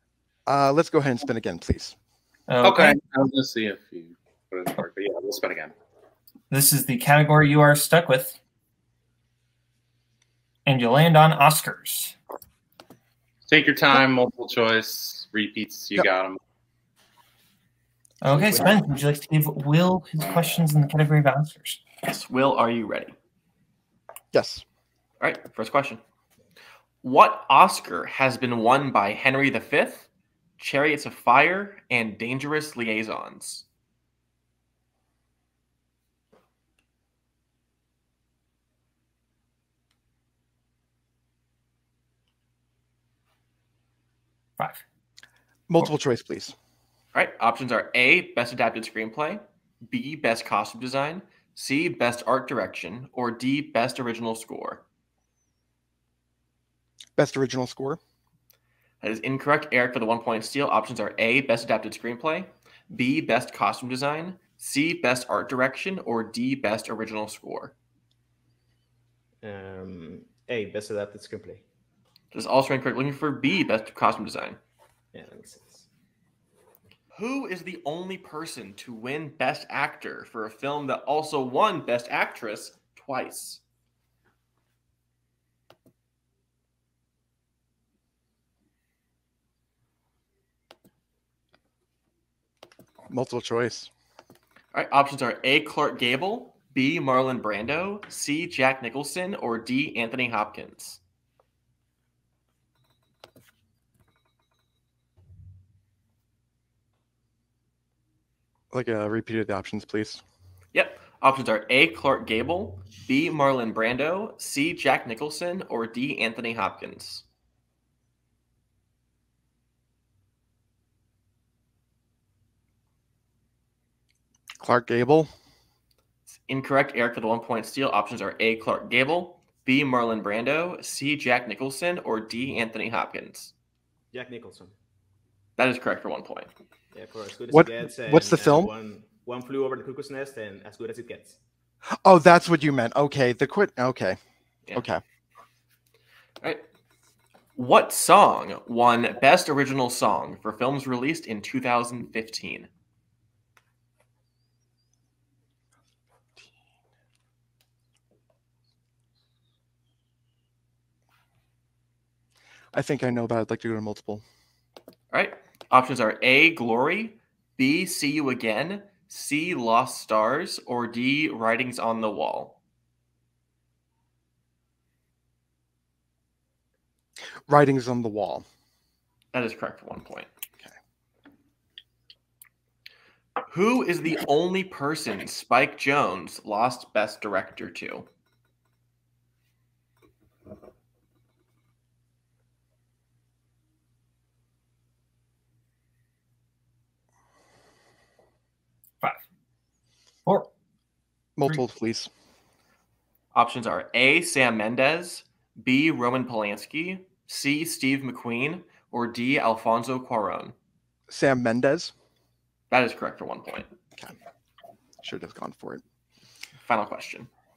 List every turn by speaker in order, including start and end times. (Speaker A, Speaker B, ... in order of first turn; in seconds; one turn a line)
Speaker A: 0.5-2.0
Speaker B: 2.5-3.0
Speaker C: 2.6-5.7
Speaker B: 6.5-8.4
Speaker B: 10.7-12.2
Speaker C: 13.4-16.4
Speaker B: 18.2-21.8
Speaker D: 22.0-23.1
Speaker A: 24.3-24.6
Speaker D: 25.2-26.0
Speaker D: 27.0-33.6
Speaker A: 45.7-46.5
Speaker D: 47.1-54.8
Speaker A: 57.2-58.0
Speaker D: 59.0-67.7
Speaker E: 69.4-71.6
Speaker D: 72.3-74.6
Speaker E: 75.1-75.9
Speaker D: 77.1-83.6
Speaker A: 93.1-93.9
Speaker D: 94.7-101.0
Speaker A: 108.7-110.2
Speaker D: 110.7-117.2
Speaker A: 124.6-125.3
Speaker D: 126.4-133.5
Speaker E: 134.1-134.8
Speaker D: 135.6-136.5
Speaker E: 136.9-141.4
Speaker A: 137.5-138.7
Speaker A: 142.0-144.2
Speaker A: 144.7-145.0
Speaker D: 147.6-152.7
Speaker A: 162.7-164.2
Speaker D: 165.1-172.6
Speaker A: 177.5-178.5
Speaker D: 179.3-180.3
Speaker D: 183.5-188.1
Speaker A: 201.4-202.1
Speaker D: 203.3-210.5
Speaker A: 211.1-211.9
Speaker D: 212.7-213.7
Speaker A: 215.0-215.8
Speaker D: 216.6-217.3